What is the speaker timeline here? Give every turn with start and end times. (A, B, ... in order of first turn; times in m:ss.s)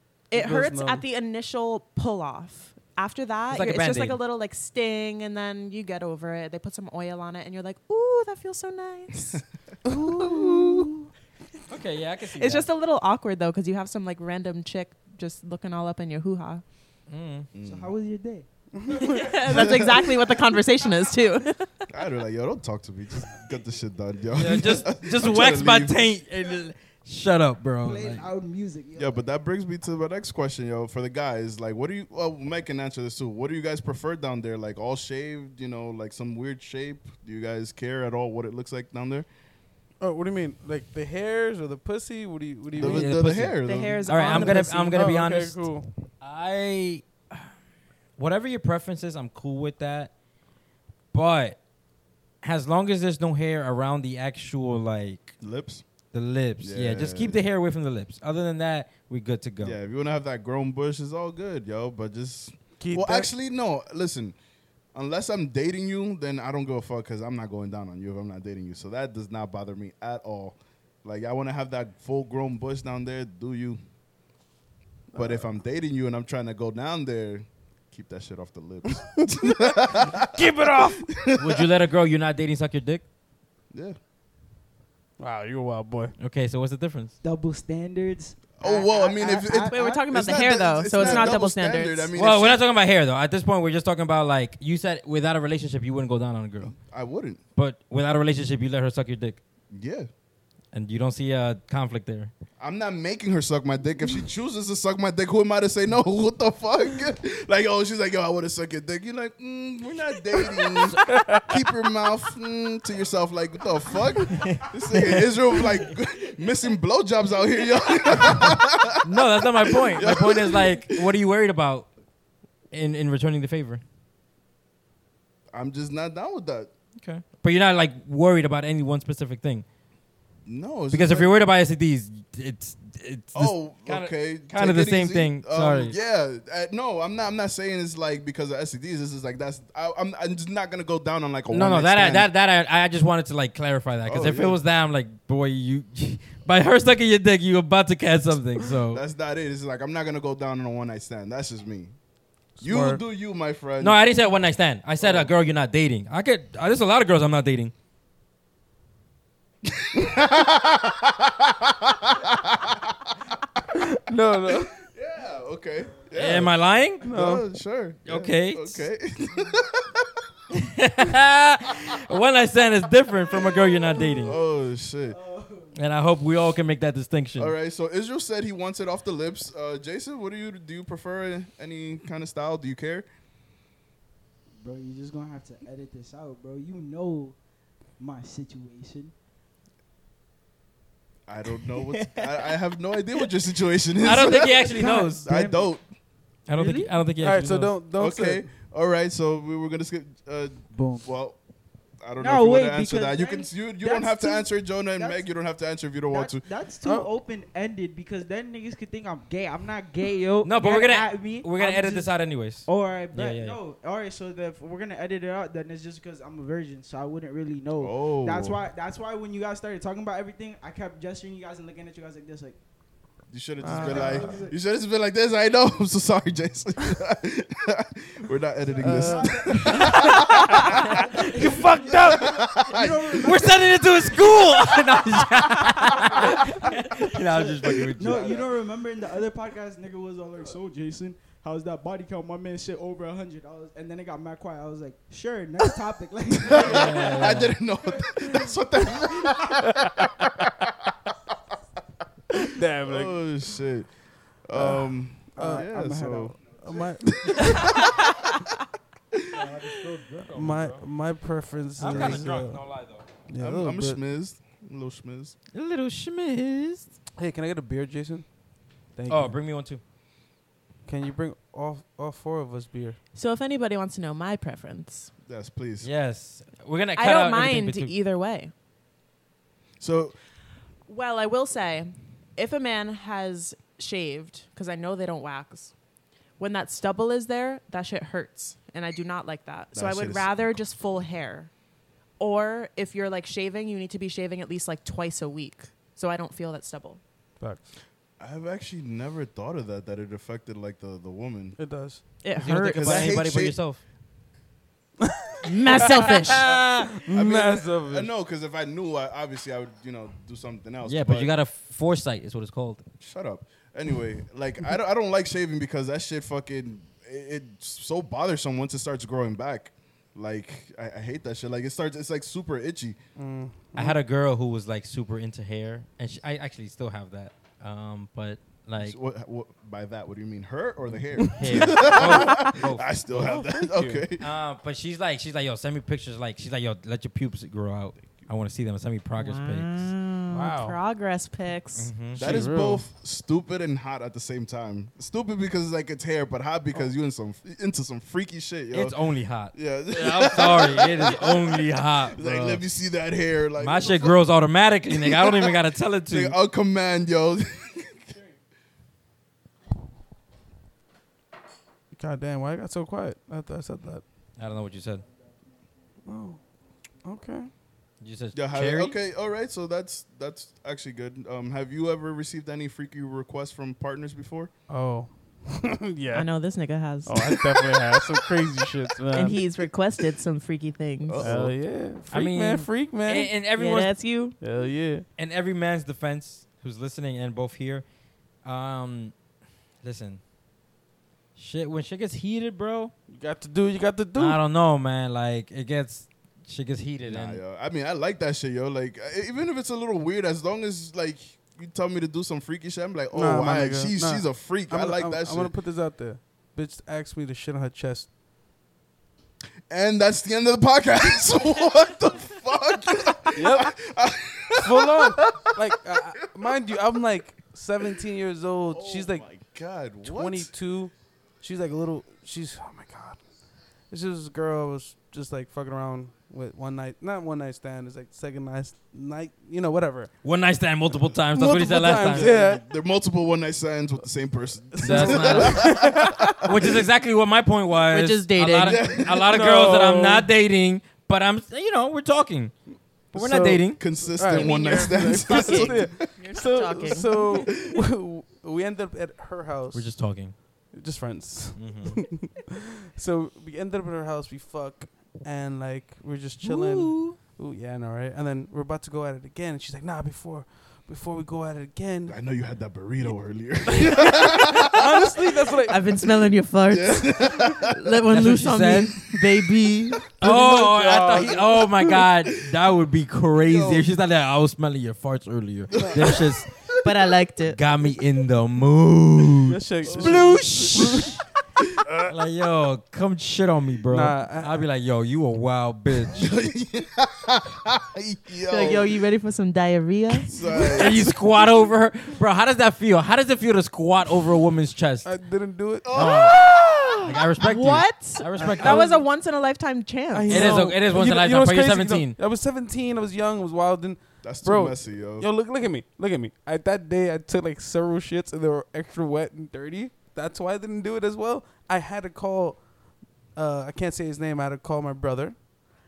0:00.3-0:11.1 A
0:00.3-0:01.0 B
0:03.5-0:04.2 C
0:10.2-0:10.9 D
0:11.7-0:12.7 C
0:12.4-0:16.6 A
0:17.1-0:17.5 C
0:17.5-0:17.9 D
0:17.6-0:20.8 E
0:18.7-0:19.1 B
0:19.0-0:21.8 A
0:19.5-0:20.1 D
0:21.9-0:26.1 D
0:24.3-0:28.3 C
0:27.8-0:29.2 E
0:29.0-0:39.3 D
0:40.0-0:43.1 B
0:42.7-0:47.5 C
0:42.8-0:44.1 D
0:43.6-0:45.0 A
0:44.2-0:46.0 B
0:48.2-0:50.1 C
0:51.1-0:51.6 C
0:52.4-0:55.4 C
0:55.4-0:55.8 D
0:56.1-0:59.8 C
0:56.6-0:57.4 D
0:59.6-1:04.4 D
1:02.8-1:03.3 B
1:04.9-1:13.8 D
1:15.1-1:21.6 D
1:20.3-1:21.1 B
1:21.4-1:23.0 C
1:23.7-1:24.0 D
1:25.2-1:26.1 B
1:26.2-1:27.2 C
1:27.2-1:30.0 E
1:28.6-1:32.6 D
1:29.7-1:32.1 A
1:30.9-1:31.4 E
1:32.1-1:36.7 C
1:36.6-1:37.4 D
1:37.5-1:39.4 C
1:39.7-1:40.1 D
1:40.7-1:42.3 C
1:42.6-2:01.1 D
1:51.1-1:51.5 B
1:54.5-1:55.2 C
1:59.0-2:01.9 C
2:02.7-2:03.8 C
2:05.5-2:06.7 D
2:07.0-2:09.6 C
2:10.4-2:11.3 D
2:10.9-2:16.0 C
2:13.3-2:22.3 D
2:21.5-2:29.0 C
2:24.0-2:24.6 D
2:28.9-2:31.9 D
2:32.6-2:33.0 B
2:32.6-2:34.0 D
2:33.8-2:37.7 C
2:35.0-2:35.3 D
2:39.6-2:43.1 D
2:43.7-2:44.8 B
2:44.9-2:46.6 D
2:46.2-2:47.1 C
2:47.0-2:47.4 B
2:47.1-2:50.1 D
2:48.0-2:48.9 C
2:50.5-2:54.4 C
2:54.2-2:55.2 D
2:55.0-2:55.8 E
2:55.7-2:57.5 C
2:57.4-3:03.0 D
3:04.6-3:07.4 E
3:08.0-3:09.1 E
3:11.3-3:15.8 D
3:14.0-3:15.2 C
3:14.7-3:15.7 E
3:16.5-3:17.8 C
3:17.2-3:18.5 B
3:18.0-3:21.4 D
3:22.0-3:26.4 D
3:22.2-3:25.2 E
3:26.1-3:42.6 E
3:26.8-3:27.1 B
3:30.4-3:33.6 C
3:37.8-3:38.6 D
3:43.3-3:50.6 D
3:43.6-3:44.3 B
3:43.7-3:44.5 E
3:48.8-3:52.3 B
3:48.8-3:53.6 E
3:51.9-3:53.6 D
3:53.2-3:58.4 C
3:55.8-4:07.4 E
3:58.1-3:58.4 D
4:06.5-4:10.9 D
4:06.5-4:07.6 C
4:09.7-4:10.0 B
4:12.4-4:13.9 D
4:12.5-4:13.2 B
4:14.4-4:16.4 D
4:14.6-4:14.8 B
4:15.3-4:15.7 B
4:15.3-4:16.9 E
4:16.6-4:17.9 B
4:17.3-4:17.8 D
4:17.8-4:18.1 A
4:19.5-4:20.8 C
4:19.5-4:19.9 E
4:20.2-4:22.6 B
4:21.8-4:23.0 C
4:21.8-4:22.2 D
4:23.3-4:24.0 B
4:23.4-4:25.3 D
4:25.5-4:26.9 C
4:27.2-4:28.2 B
4:28.9-4:29.4 B
4:29.1-4:29.8 C
4:30.8-4:33.0 B
4:33.1-4:35.1 A
4:35.2-4:35.9 D
4:35.8-4:37.9 C
4:37.0-4:38.5 A
4:39.8-4:40.2 D
4:40.9-4:45.7 A
4:46.4-4:51.5 A
4:49.7-4:50.6 D
4:52.2-4:57.0 A
4:57.4-4:57.7 B
4:58.2-5:01.6 D
5:01.6-5:02.0 B
5:02.2-5:03.1 A
5:02.4-5:03.8 C
5:02.6-5:03.6 D
5:05.0-5:08.1 B
5:05.4-5:06.4 A
5:06.1-5:06.9 C
5:06.4-5:11.3 D
5:10.8-5:12.8 C
5:13.0-5:23.0 D
5:23.2-5:24.0 B
5:23.7-5:29.0 C
5:28.8-5:34.2 D
5:31.3-5:39.9 C
5:33.1-5:34.0 B
5:39.2-5:41.9 A
5:40.3-5:40.8 B
5:41.8-5:42.5 C
5:42.2-5:49.0 D
5:42.2-5:42.8 B
5:48.7-5:52.6 C
5:49.5-5:54.2 D
5:53.6-5:56.3 C
5:54.9-5:58.1 D
6:01.9-6:04.0 B
6:04.4-6:05.0 C
6:06.0-6:06.4 B
6:07.0-6:07.5 B
6:08.0-6:09.0 C
6:08.3-6:14.5 D
6:14.7-6:16.3 B
6:16.1-6:17.5 A
6:17.0-6:19.4 B
6:19.1-6:21.3 A
6:21.0-6:21.6 D
6:21.2-6:23.3 B
6:22.1-6:23.9 C
6:23.5-6:24.4 A
6:24.4-6:25.0 B
6:25.2-6:27.8 C
6:28.4-6:29.1 C
6:29.8-6:30.2 C
6:31.4-6:32.9 C
6:33.1-6:34.4 B
6:34.2-6:37.4 C
6:37.0-6:45.5 D
6:43.1-6:48.1 B
6:49.7-6:55.8 D
6:53.3-6:53.8 B
6:54.6-6:59.2 B
6:58.7-7:00.5 D
7:00.0-7:03.2 B
7:03.8-7:10.1 B
7:10.2-7:12.3 C
7:11.3-7:12.6 B
7:12.1-7:16.1 D
7:14.7-7:16.1 B
7:14.8-7:15.8 C
7:16.4-7:23.8 C
7:17.9-7:18.9 A
7:18.6-7:19.2 D
7:19.2-7:20.3 B
7:23.1-7:30.0 B
7:23.8-7:26.1 D
7:24.3-7:27.6 A
7:27.4-7:27.7 D
7:29.7-7:30.3 C
7:30.7-7:32.4 B
7:31.5-7:32.0 C
7:32.9-7:42.2 B
7:36.4-7:37.2 C
7:42.1-7:45.1 D
7:43.7-7:45.9 B
7:45.7-7:50.1 A
7:46.7-7:47.7 D
7:48.1-7:49.0 C
7:50.2-7:56.5 C
7:50.2-7:52.0 B
7:53.4-7:53.9 D
7:55.8-7:56.6 D
7:56.8-7:57.6 A
7:57.5-8:01.2 C
7:59.4-8:01.2 B
7:59.8-8:00.3 D
8:01.9-8:02.1 B
8:02.1-8:06.3 C
8:03.9-8:04.6 B
8:06.2-8:08.9 D
8:08.5-8:10.3 A
8:10.3-8:11.0 D
8:10.6-8:11.1 B
8:10.7-8:15.1 C
8:15.0-8:16.0 B
8:15.8-8:16.4 D
8:15.9-8:16.4 C
8:16.0-8:20.6 A
8:17.0-8:18.9 C
8:18.4-8:19.0 B
8:20.1-8:32.6 B
8:20.3-8:22.2 C
8:24.2-8:25.3 D
8:33.3-8:35.4 B